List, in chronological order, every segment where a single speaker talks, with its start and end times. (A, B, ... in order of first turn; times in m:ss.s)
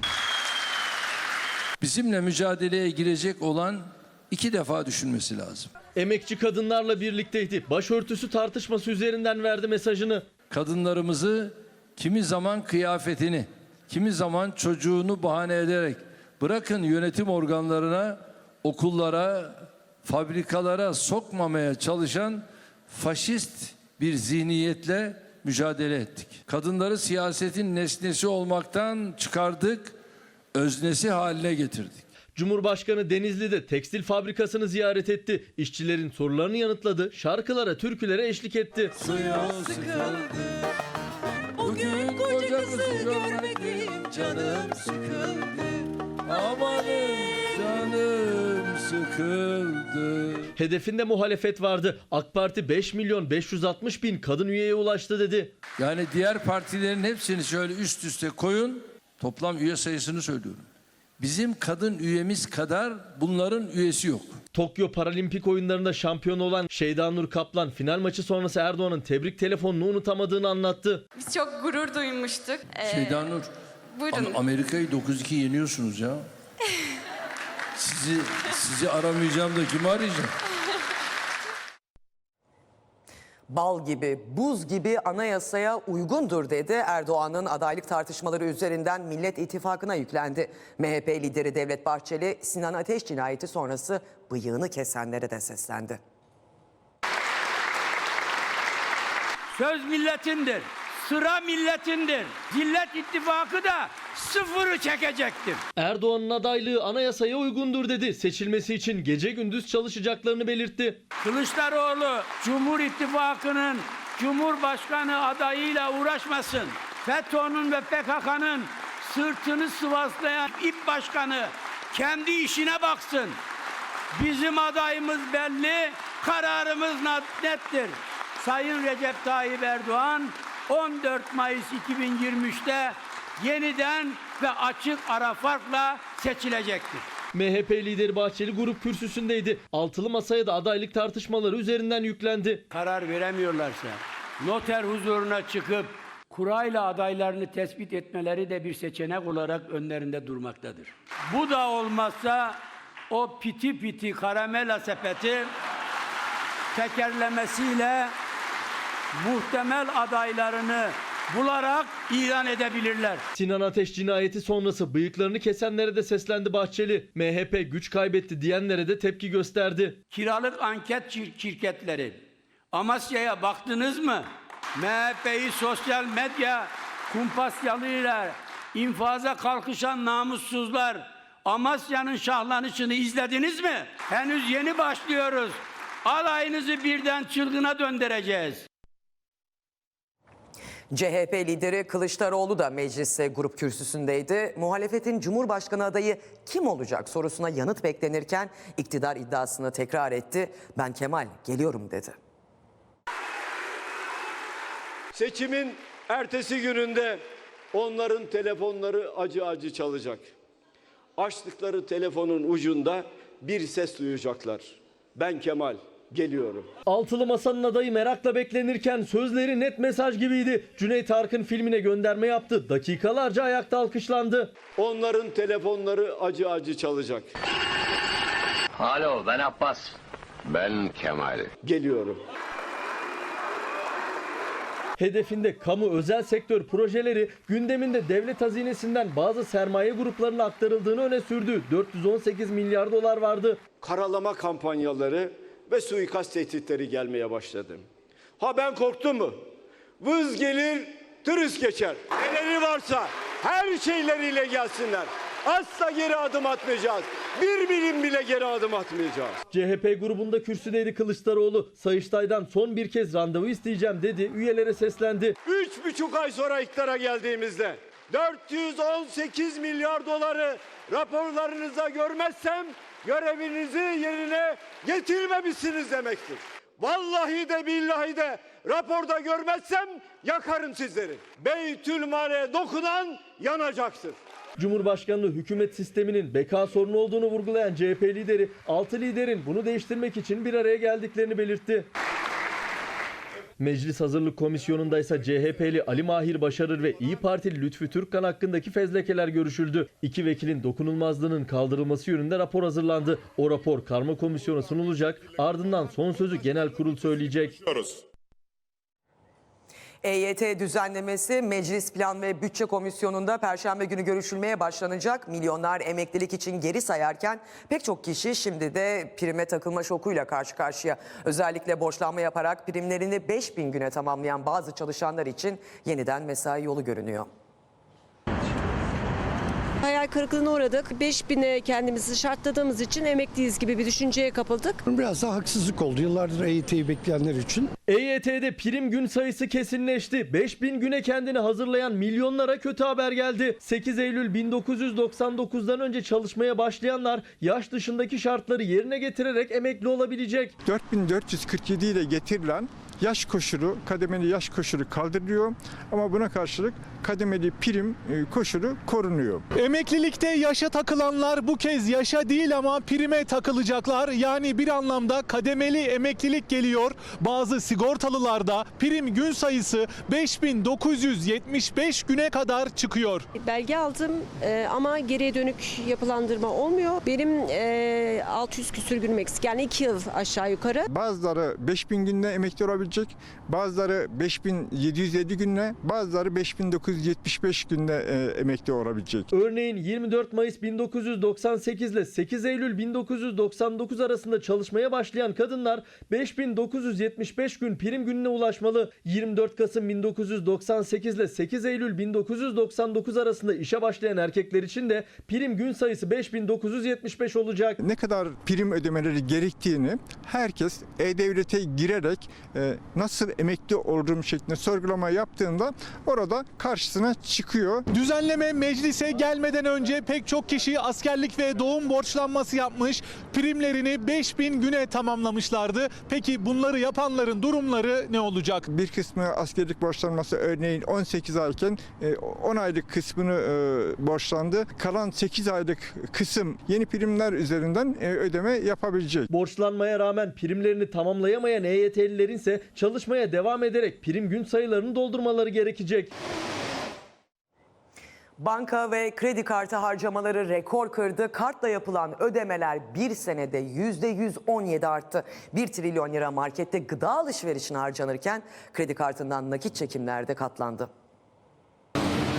0:01.8-0:05.7 A
0:06.0-0:10.3 B
0:10.5-0:30.0 A
0:30.5-0:32.0 A
0:32.4-0:39.0 B
0:39.0-0:40.6 A
0:41.6-0:50.5 A
0:50.6-0:55.5 B
0:55.8-1:00.7 A
1:01.2-1:04.4 A
1:04.5-1:11.0 B
1:11.2-1:13.2 C
1:12.9-1:13.5 A
1:14.0-1:14.4 C
1:14.1-1:16.2 A
1:17.8-1:20.3 A
1:23.5-1:36.0 D
1:39.5-1:45.6 E
1:45.8-1:51.0 B
1:51.2-2:03.4 E
2:04.1-2:17.0 E
2:17.3-2:22.6 B
2:22.7-2:35.5 E
2:36.7-2:38.1 E
2:39.2-2:43.2 E
2:43.3-2:50.0 B
2:50.1-2:52.2 E
2:52.7-3:08.6 E
3:10.9-3:22.2 D
3:25.2-3:27.2 F
3:27.7-3:30.3 F
3:31.2-3:36.7 F
3:36.9-3:44.5 B
3:44.8-3:47.3 F
3:48.8-3:49.9 G
3:50.5-3:51.5 G
3:51.6-3:52.2 F
3:55.0-4:03.6 B
4:03.8-4:07.8 F
4:08.4-4:09.4 F
4:10.0-4:19.4 F
4:19.5-4:25.4 B
4:25.4-4:44.2 F
4:44.6-4:51.9 B
4:53.6-5:07.7 B
5:10.0-5:27.3 D
5:29.8-5:34.8 H
5:34.9-5:37.7 I
5:37.9-5:50.5 B
5:50.6-5:59.5 J
5:59.6-5:59.8 K
6:00.6-6:04.4 K
6:05.0-6:13.2 K
6:13.4-6:20.9 H
6:20.9-6:29.3 J
6:29.3-6:47.8 B
6:47.8-6:57.9 J
7:02.2-7:08.6 K
7:08.7-7:19.3 J
7:19.3-7:26.1 B
7:28.4-7:40.9 D